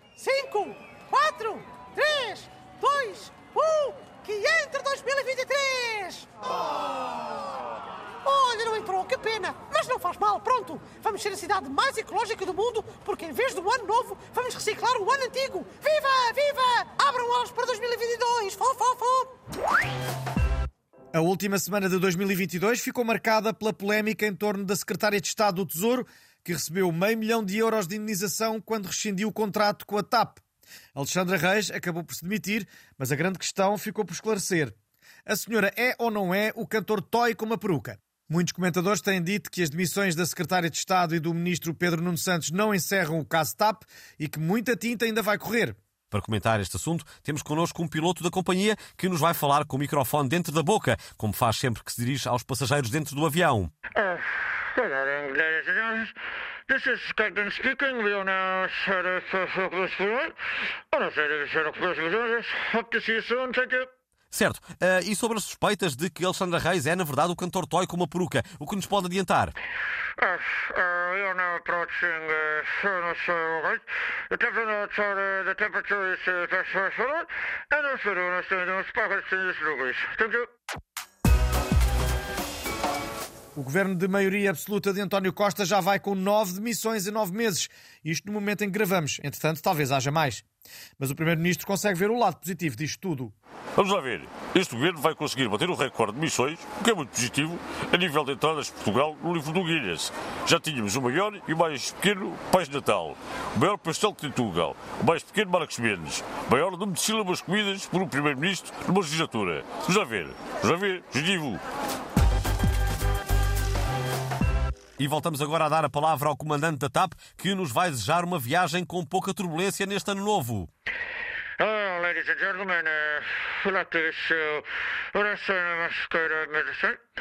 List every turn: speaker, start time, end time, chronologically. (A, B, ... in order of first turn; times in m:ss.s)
0:00.2-0:06.3 A
0:08.2-0:19.3 A
0:21.1-0:30.4 B
0:30.9-0:45.8 B
0:46.1-0:53.7 C
0:53.9-0:56.1 D
0:56.7-1:00.4 D
1:00.9-1:03.9 D
1:04.3-1:09.5 C
1:10.2-1:20.5 D
1:23.6-1:30.4 B
1:31.0-1:33.3 B
1:33.8-1:51.6 E
1:55.0-2:00.7 C
2:01.6-2:07.0 D